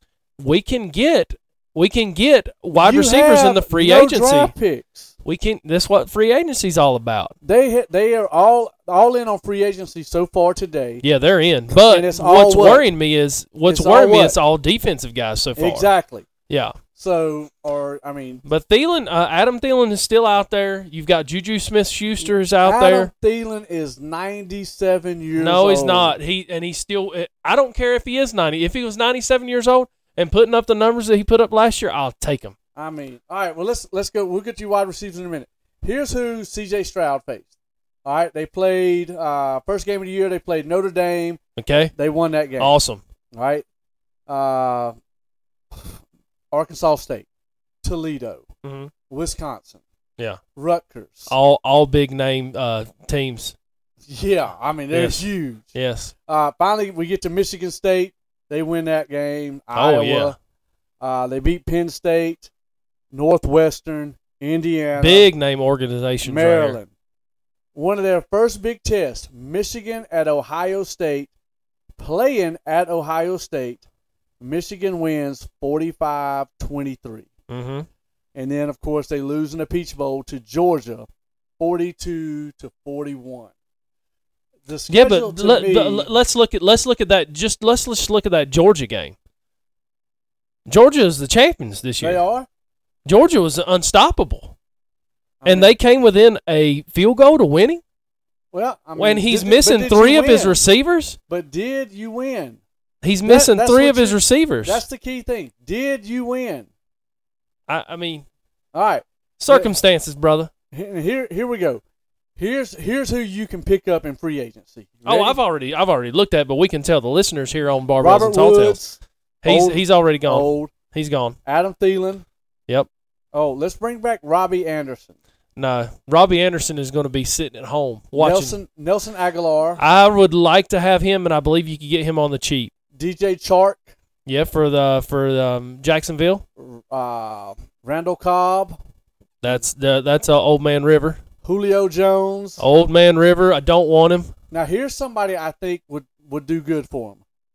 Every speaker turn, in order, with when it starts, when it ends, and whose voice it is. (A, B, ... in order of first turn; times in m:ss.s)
0:00.4-0:04.5 A
0:02.8-0:05.1 B
0:05.2-0:07.3 A
0:07.4-0:11.0 B
0:11.0-0:15.9 A
0:11.8-0:12.9 B
0:13.7-0:14.4 B
0:15.6-0:16.3 B
0:16.5-0:16.8 A
0:17.0-0:18.4 B
0:18.4-0:23.1 A
0:22.2-0:26.2 B
0:25.4-0:32.6 A
0:32.8-0:37.5 B
0:38.0-0:41.4 B
0:41.6-0:41.9 A
0:42.0-0:42.8 B
0:42.6-0:43.0 A
0:43.3-0:43.6 B
0:44.3-0:45.0 B
0:45.7-0:46.0 B
0:46.5-0:47.3 B
0:47.8-0:48.5 B
0:48.6-0:48.9 A
0:49.1-0:49.8 B
0:50.6-0:51.3 B
0:51.3-0:53.6 A
0:54.1-0:55.7 B
0:54.9-0:56.1 A
0:56.3-1:00.4 B
0:59.7-1:00.4 A
1:01.0-1:02.5 B
1:03.1-1:05.3 B
1:05.0-1:06.8 A
1:06.2-1:06.9 B
1:07.8-1:11.3 B
1:12.0-1:13.8 B
1:14.4-1:17.3 B
1:17.5-1:17.9 A
1:18.4-1:21.1 B
1:21.6-1:23.5 B
1:24.7-1:26.1 B
1:24.9-1:29.2 A
1:30.7-1:32.2 A
1:32.0-1:32.5 B
1:33.1-1:34.6 A
1:35.4-1:35.8 B
1:35.4-1:37.8 A
1:38.5-1:40.6 B
1:39.0-1:41.2 A
1:41.3-1:42.6 B
1:43.0-1:44.8 A
1:43.2-1:46.7 B
1:47.7-1:48.3 A
1:48.7-1:49.7 B
1:49.4-1:50.5 A
1:50.7-1:51.8 B
1:52.4-1:55.4 B
1:55.0-1:58.8 A
1:58.0-2:00.7 B
1:59.4-2:01.4 A
2:01.4-2:02.3 B
2:03.3-2:05.1 B
2:05.6-2:08.6 A
2:08.2-2:09.8 B
2:09.8-2:12.7 A
2:13.0-2:13.9 B
2:14.3-2:16.4 A
2:16.6-2:18.8 B
2:19.4-2:21.2 A
2:21.4-2:22.6 B
2:22.6-2:24.3 A
2:24.5-2:27.2 B